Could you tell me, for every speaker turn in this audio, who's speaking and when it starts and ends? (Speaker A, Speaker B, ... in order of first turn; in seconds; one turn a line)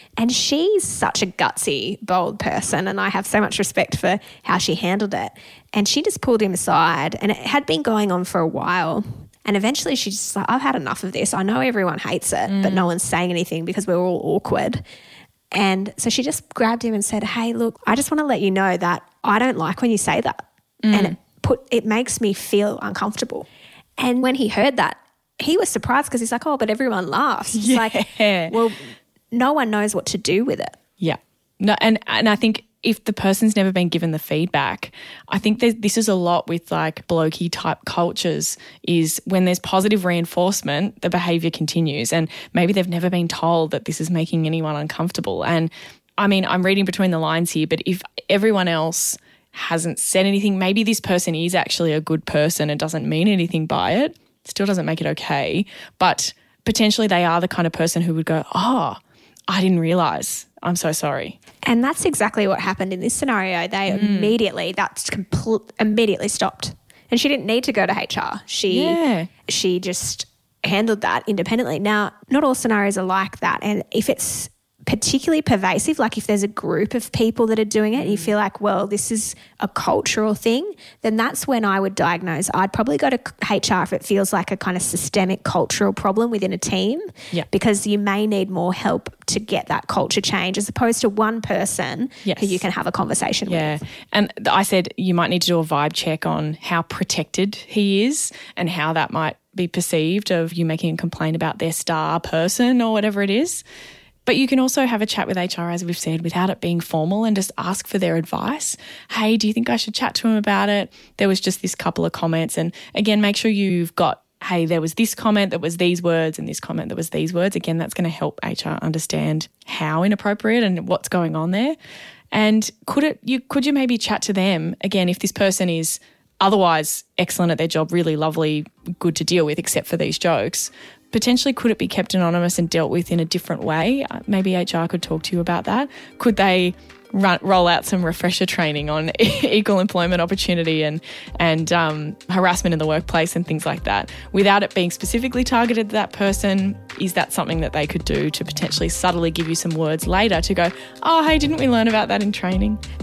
Speaker A: 0.2-14.8
Speaker B: 12.5-12.9
Speaker A: 15.5-23.5
Speaker B: 20.8-21.1
Speaker A: 24.0-30.8
Speaker B: 27.5-28.5
Speaker B: 31.0-61.4
Speaker A: 61.6-93.8
Speaker B: 63.9-64.3
Speaker B: 68.7-69.3
Speaker B: 78.0-78.3
Speaker B: 92.2-92.6
Speaker B: 93.5-103.6
Speaker B: 104.2-121.8
Speaker B: 122.3-152.8